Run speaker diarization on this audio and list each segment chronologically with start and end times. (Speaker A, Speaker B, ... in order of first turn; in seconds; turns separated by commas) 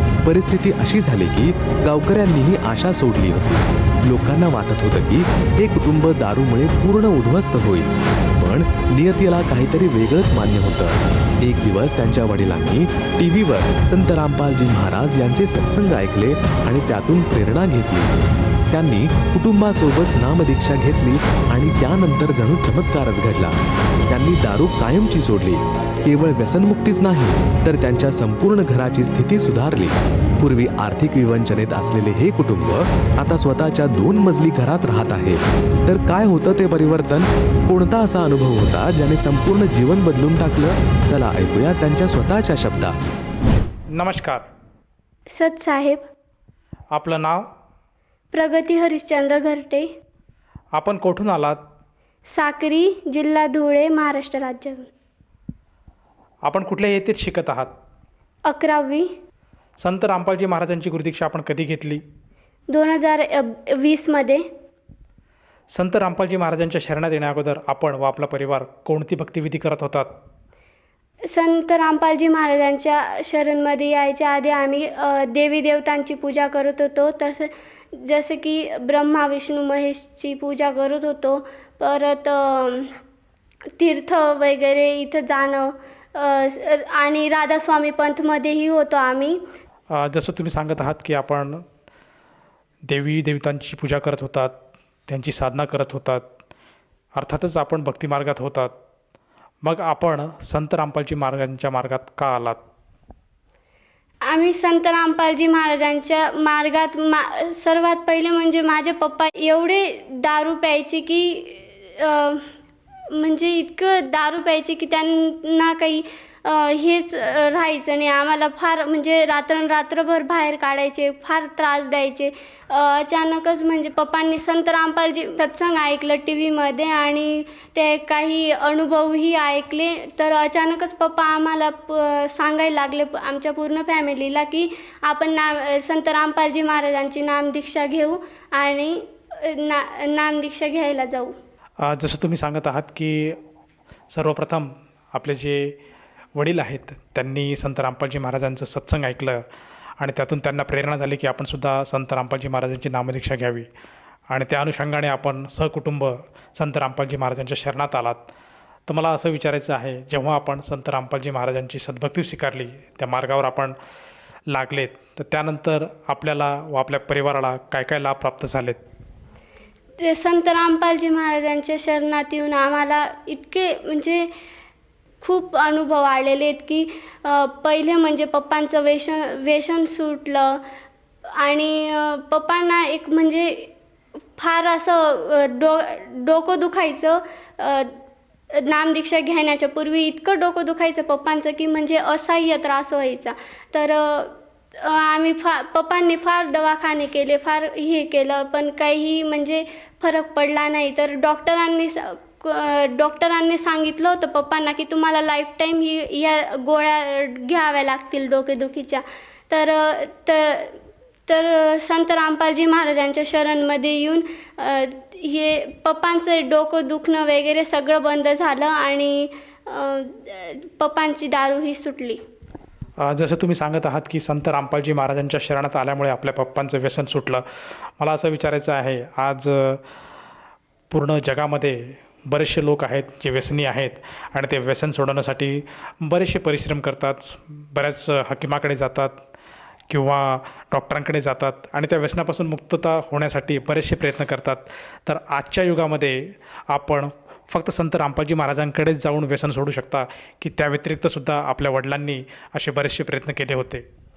Speaker A: 0.2-18.1, Speaker A: 18.7-43.0, Speaker B: 44.0-44.4, Speaker C: 45.3-46.0, Speaker B: 46.9-47.4, Speaker C: 48.3-49.9, Speaker B: 50.7-51.6, Speaker C: 52.3-54.9, Speaker B: 56.5-57.7, Speaker C: 58.5-59.1, Speaker B: 59.8-62.0, Speaker C: 62.7-64.4, Speaker B: 65.8-70.1, Speaker C: 71.3-83.0, Speaker C: 83.8-89.4, Speaker B: 90.0-91.6, Speaker B: 92.9-94.5, Speaker B: 95.1-96.2, Speaker B: 97.2-98.7, Speaker B: 99.6-102.6, Speaker C: 104.3-112.5, Speaker C: 113.1-141.3, Speaker B: 141.8-143.4, Speaker B: 144.1-145.7, Speaker B: 146.4-149.4, Speaker B: 150.0-153.7, Speaker B: 154.3-158.2, Speaker B: 158.9-163.7, Speaker B: 164.5-168.8, Speaker C: 170.0-174.3, Speaker C: 175.2-180.6, Speaker C: 181.4-183.7, Speaker C: 184.3-187.9, Speaker C: 188.5-222.2, Speaker B: 223.0-227.4, Speaker B: 228.0-229.8, Speaker B: 230.9-239.2, Speaker B: 239.9-246.2, Speaker B: 246.7-253.8